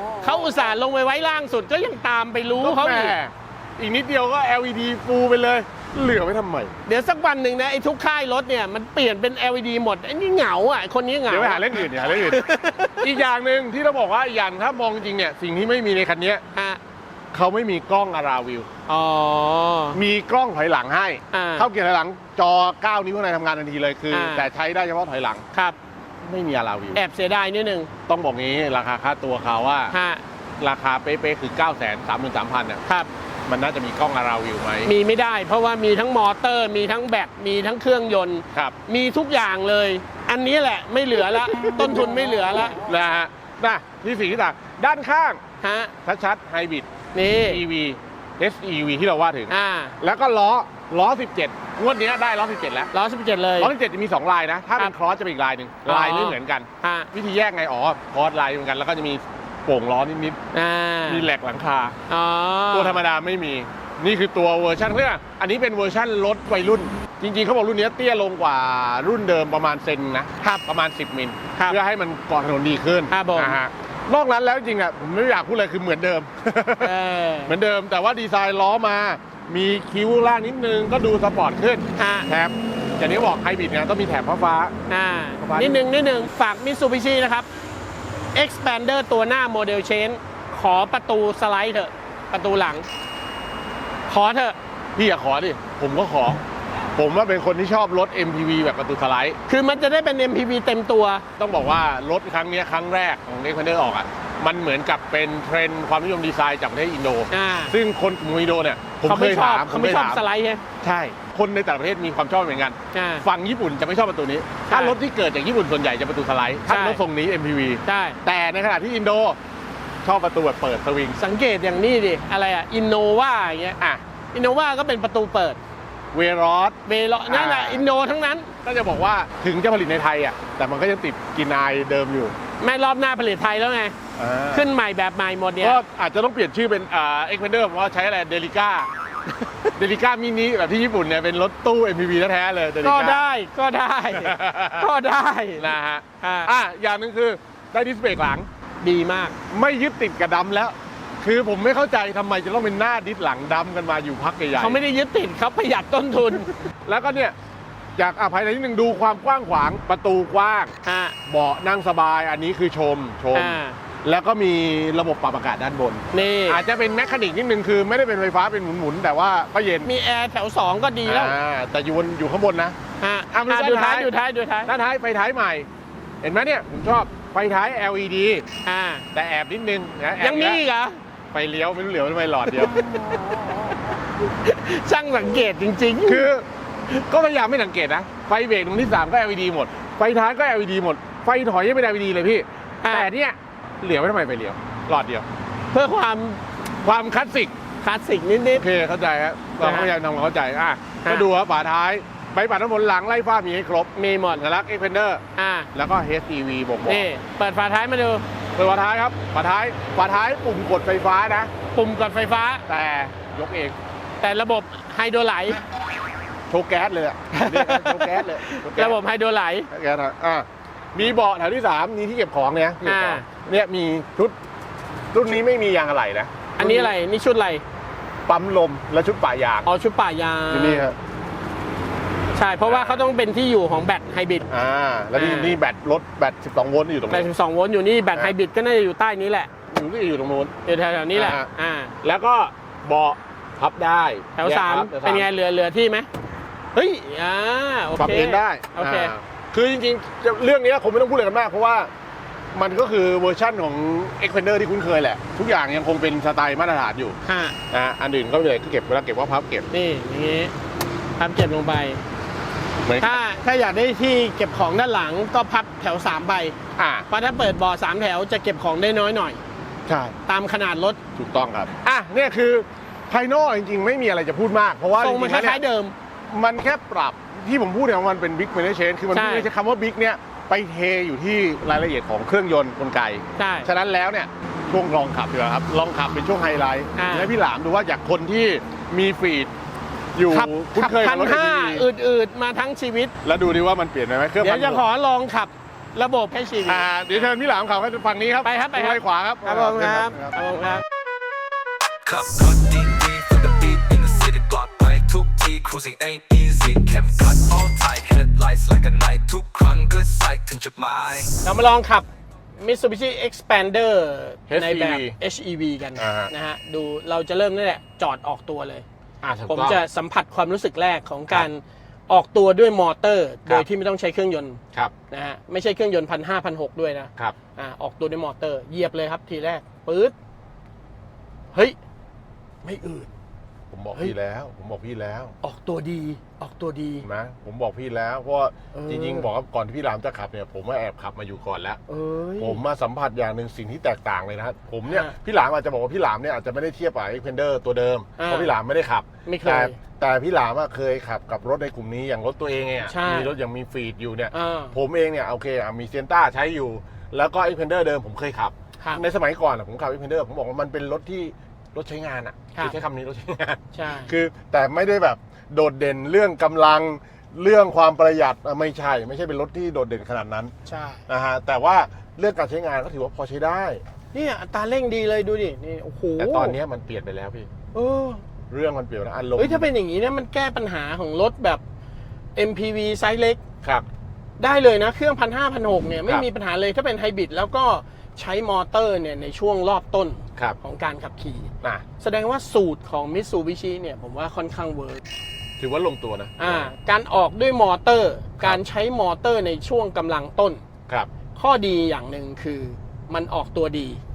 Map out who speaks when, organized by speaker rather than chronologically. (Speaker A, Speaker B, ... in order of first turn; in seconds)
Speaker A: 0.2-3.2, 6.9-13.1, 16.5-16.8, 18.9-20.0, 21.3-21.7, 24.1-24.5, 26.9-27.9, 29.9-30.2, 34.9-42.8, 45.6-45.9, 47.1-47.6, 49.5-50.0, 52.9-53.7, 55.9-57.1, 60.5-61.3, 62.1-63.0, 73.1-73.6, 76.8-77.5, 82.0-82.3, 84.9-87.5, 88.3-92.9, 94.1-94.6, 99.5-101.2, 107.3-107.8, 109.0-110.6, 112.9-113.3, 114.7-115.0, 116.7-117.0, 117.8-118.2, 121.2-123.8, 124.3-125.6, 126.8-128.5, 132.6-133.9, 134.5-135.8, 142.8-146.5, 148.8-149.4, 154.6-156.5, 160.8-161.2, 163.3-163.8, 166.1-166.6, 169.8-171.4, 173.0-174.7, 178.7-179.1, 180.2-181.0, 184.3-186.3, 192.8-193.1, 195.7-196.4, 197.8-198.7, 199.6-199.9, 203.9-204.4, 205.4-205.7, 206.8-208.2, 211.7-212.7, 214.2-215.6, 217.3-219.7, 222.8-223.3, 226.6-227.6, 229.7-230.9, 232.3-234.5, 235.2-235.6, 237.1-239.5, 240.7-241.9, 244.4-246.1, 246.7-249.1, 257.2-257.6, 259.7-260.5, 261.2-262.0, 263.0-266.6, 267.1-269.4, 270.3-271.0, 275.0-275.9, 279.1-279.5, 283.4-283.7, 286.9-287.3, 290.3-293.1, 294.4-297.3, 298.4-300.8, 311.4-318.9, 319.5-324.6, 325.1-330.1, 332.6-333.1, 335.4-337.1, 338.7-339.3, 341.9-342.6, 344.9-345.1, 348.2-348.5, 349.3-349.8, 352.8-353.3, 354.3-354.8, 363.7-364.1, 370.7-371.0, 374.1-376.6, 377.7-378.2, 379.4-381.6, 382.4-383.4, 384.4-395.0, 396.4-400.6, 401.4-404.0
Speaker B: 2.6-6.7, 11.3-16.4, 17.3-18.7, 19.9-25.4, 26.2-27.0, 28.1-29.9, 30.6-32.8, 33.5-34.9, 41.2-45.4, 46.0-46.9, 47.4-52.9, 53.6-60.4, 61.1-62.0, 62.7-77.0, 77.5-84.8, 85.4-85.8, 95.0-96.4, 97.0-99.4, 101.4-110.2, 110.8-119.4, 120.0-121.2, 126.1-127.8, 128.6-132.3, 134.2-134.7, 135.6-138.9, 139.8-143.2, 144.1-144.9, 145.6-148.5, 149.5-154.8, 156.8-157.3, 158.0-160.7, 161.3-169.9, 171.1-172.8, 173.3-174.1, 174.7-175.7, 176.2-178.4, 179.1-180.6, 181.3-182.9, 186.1-195.3, 196.8-197.6, 198.5-205.2, 205.7-207.1, 208.6-211.5, 212.7-213.8, 216.5-219.0, 219.7-224.4, 225.1-226.9, 228.3-229.7, 230.5-231.0, 232.6-233.0, 234.5-237.3, 239.7-240.5, 241.1-241.5, 242.0-245.3, 248.0-251.9, 252.5-257.2, 257.7-259.7, 262.9-263.2, 266.8-267.1, 269.9-270.2, 271.2-275.6, 276.3-289.5, 290.1-291.9, 293.2-294.9, 296.7-300.4, 314.5-315.2, 316.0-316.3, 319.2-319.8, 333.7-335.3, 337.0-341.8, 342.4-370.5, 371.1-373.8, 376.2-377.5, 378.5-379.7, 395.6-396.7
Speaker C: 302.1-311.3